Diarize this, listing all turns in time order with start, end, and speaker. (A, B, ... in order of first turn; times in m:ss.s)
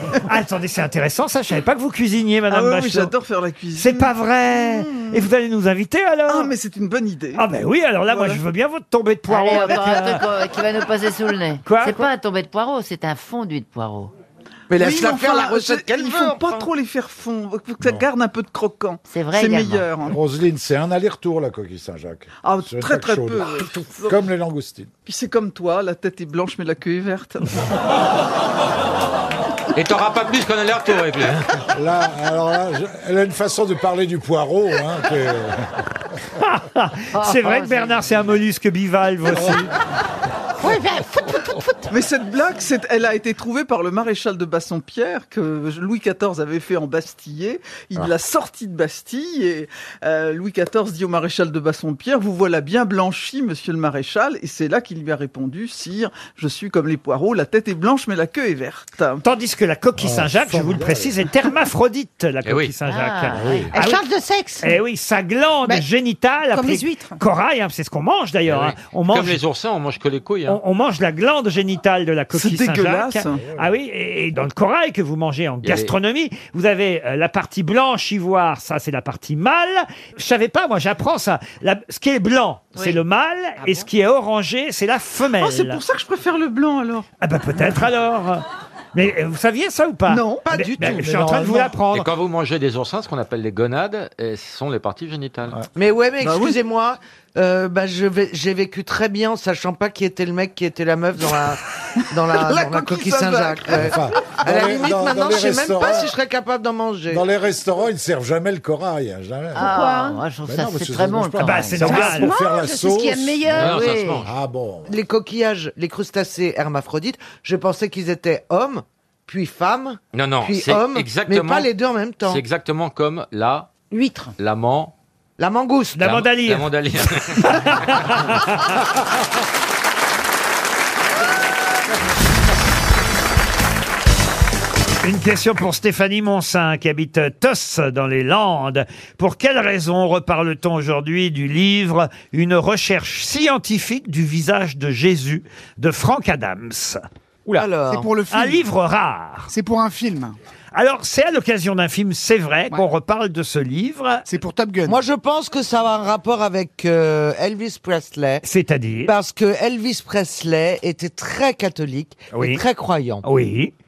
0:00.2-0:03.1 A
0:02.5-0:05.2 B
0:03.7-0:06.5 A
0:06.3-0:07.4 B
0:07.4-0:10.2 A
0:08.1-0:08.4 B
0:09.3-0:14.1 C
0:11.6-0:12.1 A
0:14.7-0:16.6 D
0:14.7-0:20.2 B
0:19.1-0:19.9 C
0:20.0-0:24.9 E
0:22.4-0:24.2 B
0:25.0-0:27.6 B
0:29.7-0:31.4 F
0:31.7-0:35.6 E
0:36.4-0:39.7 A
0:40.6-0:41.8 G
0:41.9-0:59.2 B
0:59.2-1:04.0 A
1:00.0-1:01.1 E
1:02.4-1:02.7 F
1:02.8-1:03.7 C
1:03.4-1:03.7 E
1:03.7-1:04.8 G
1:04.6-1:09.4 A
1:06.5-1:07.2 G
1:08.5-1:10.6 F
1:10.5-1:25.8 A
1:12.3-1:13.4 B
1:15.6-1:15.9 F
1:25.4-1:27.1 B
1:27.2-1:32.1 A
1:30.4-1:31.1 D
1:30.8-1:31.7 E
1:31.9-1:35.6 F
1:35.7-1:47.2 D
1:36.2-1:36.6 B
1:42.6-1:43.0 B
1:43.7-1:46.1 E
1:47.1-1:49.7 E
1:49.6-1:52.0 C
1:49.6-1:50.2 G
1:50.4-1:54.9 E
1:51.4-1:52.3 A
1:51.9-1:53.9 G
1:53.5-1:54.3 F
1:53.8-1:54.2 C
1:54.9-2:02.4 D
2:00.1-2:04.9 F
2:03.9-2:04.3 G
2:05.4-2:06.1 D
2:06.0-2:06.7 A
2:06.0-2:07.4 F
2:07.4-2:08.6 A
2:15.0-2:27.0 A
2:27.6-2:28.1 D
2:27.8-2:28.6 H
2:28.3-2:29.5 A
2:29.5-2:30.3 H
2:30.7-2:34.2 A
2:34.2-2:35.0 H
2:34.9-2:38.4 D
2:38.4-2:39.1 A
2:39.0-2:43.2 D
2:42.3-2:42.6 A
2:43.2-2:43.7 A